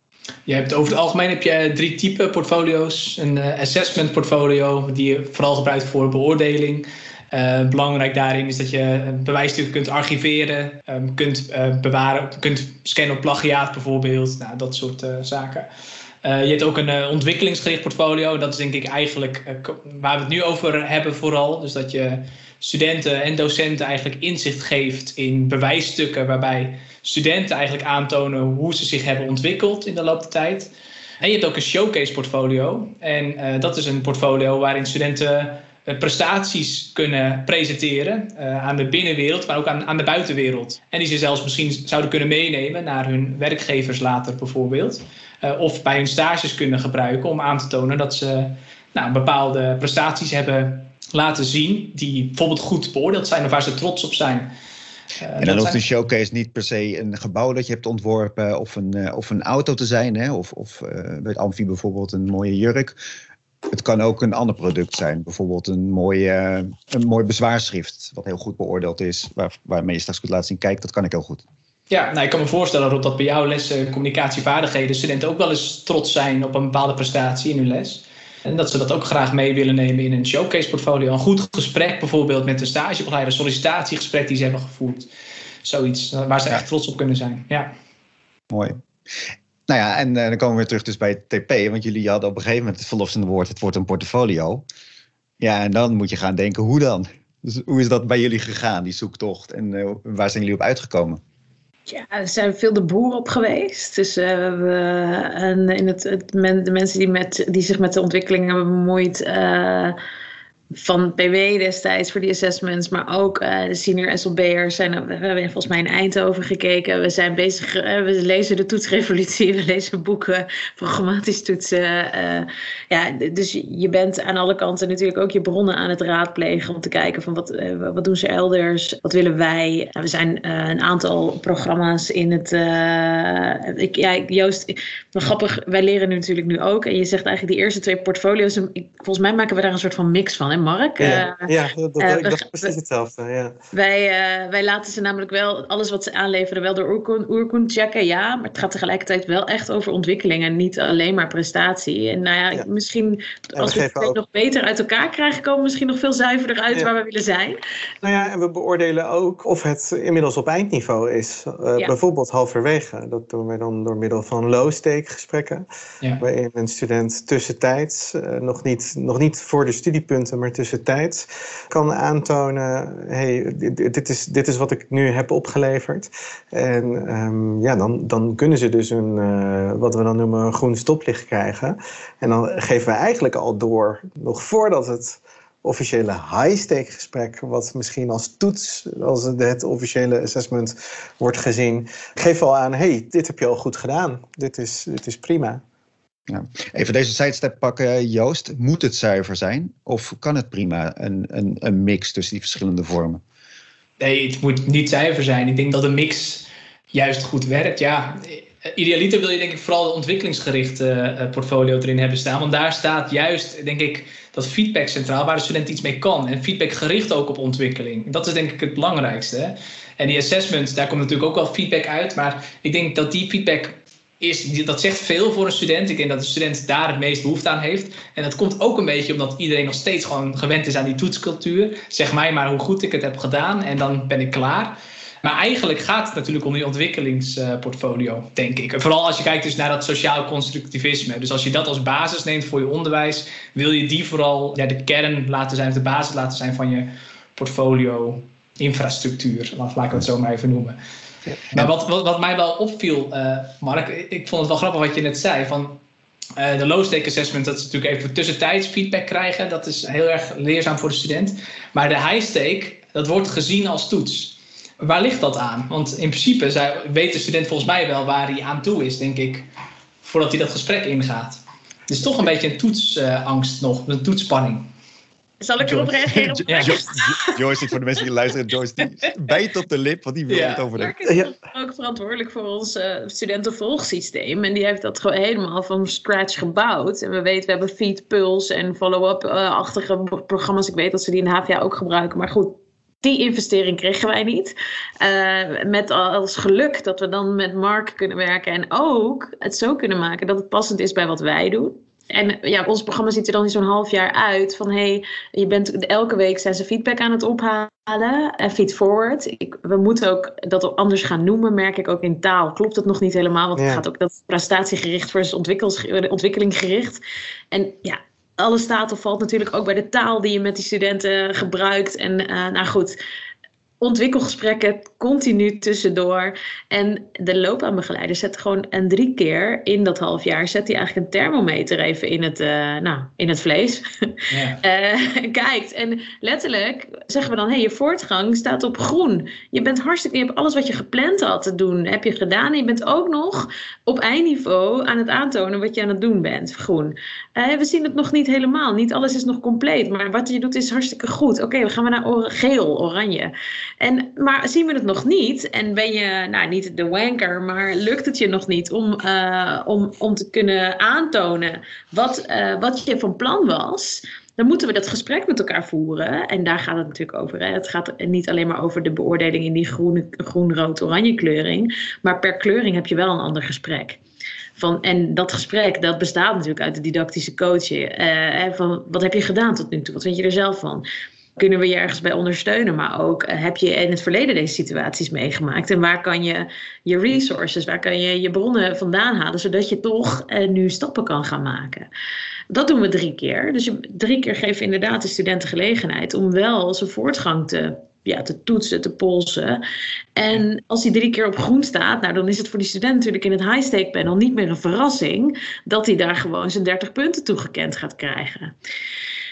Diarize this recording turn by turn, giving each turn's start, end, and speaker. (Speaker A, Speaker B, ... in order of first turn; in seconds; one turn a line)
Speaker A: 0.5-15.7
Speaker A: 16.2-54.5
Speaker A: 55.2-55.8
Speaker B: 55.4-63.0
Speaker B: 63.7-71.4
Speaker A: 71.9-85.1
Speaker A: 85.6-87.7
Speaker B: 88.5-88.8
Speaker B: 89.7-94.6
Speaker B: 95.4-101.2
Speaker C: 101.9-110.0
Speaker C: 110.7-142.7
Speaker D: 141.0-143.6
Speaker C: 143.7-157.6
Speaker D: 153.6-154.2
Speaker D: 158.0-165.7
Speaker D: 166.2-195.6
Speaker B: 196.3-203.2
Speaker A: 204.0-250.8
Speaker A: 251.5-255.8
Speaker A: 256.4-269.5
Speaker A: 270.0-274.7
Speaker C: 275.4-277.4
Speaker B: 275.7-280.9
Speaker A: 276.5-276.8
Speaker A: 280.3-280.7
Speaker C: 280.7-317.0
Speaker D: 313.6-313.8
Speaker C: 317.5-323.0
Speaker C: 323.8-374.0
Speaker A: 334.3-334.6
Speaker C: 374.6-380.9
Speaker C: 381.4-391.9
Speaker C: 392.5-399.6
Speaker C: 400.2-408.5